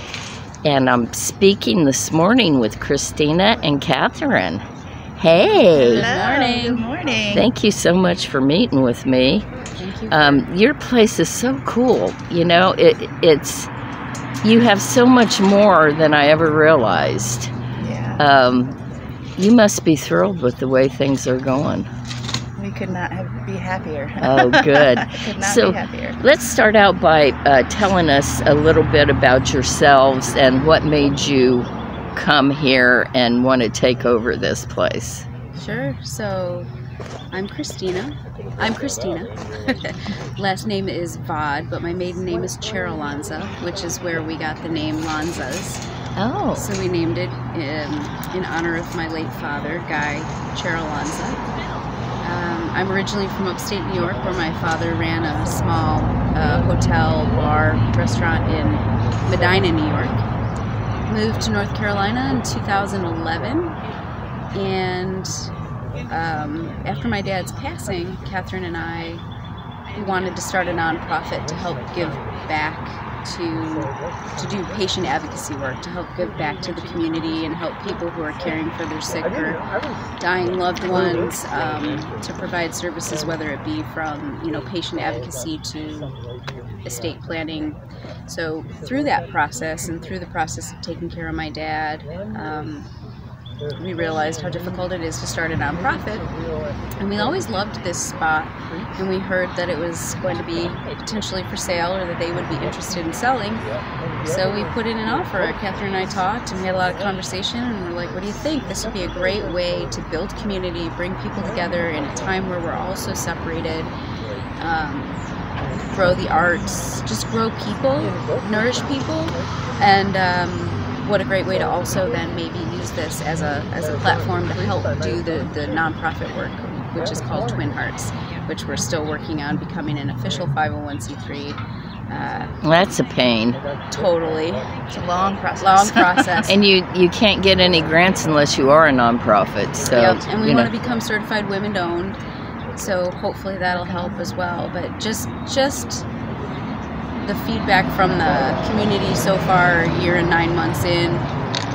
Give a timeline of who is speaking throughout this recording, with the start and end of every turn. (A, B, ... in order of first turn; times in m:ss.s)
0:00.6-0:04.6 A
0:05.2-0:06.1 A
0:05.7-0:06.8 B
0:05.9-0:07.5 C
0:07.3-0:09.5 A
0:09.8-0:10.4 B
0:10.1-0:13.7 A
0:14.4-0:17.5 A
0:17.8-0:18.2 C
0:18.2-0:18.7 A
0:19.4-0:21.8 A
0:22.6-0:26.2 C
0:24.2-0:31.6 A
0:32.2-0:35.2 A
0:35.6-0:36.7 B
0:37.3-0:45.8 B
0:46.2-0:46.7 A
0:46.5-0:51.4 B
0:52.2-1:00.2 B
1:01.1-1:03.8 B
1:04.5-1:05.3 B
1:06.1-1:09.2 B
1:10.0-1:19.6 B
1:20.2-1:26.1 B
1:26.8-1:32.9 B
1:33.8-1:36.2 B
1:37.0-1:43.6 B
1:44.2-1:53.9 B
1:54.6-1:55.1 B
1:55.9-2:11.6 B
2:12.1-2:12.5 B
2:12.6-2:13.6 A
2:13.9-2:14.6 B
2:14.9-2:16.3 C
2:15.6-2:16.6 B
2:16.5-2:20.7 A
2:19.9-2:22.2 B
2:22.8-2:26.0 B
2:27.2-2:31.3 B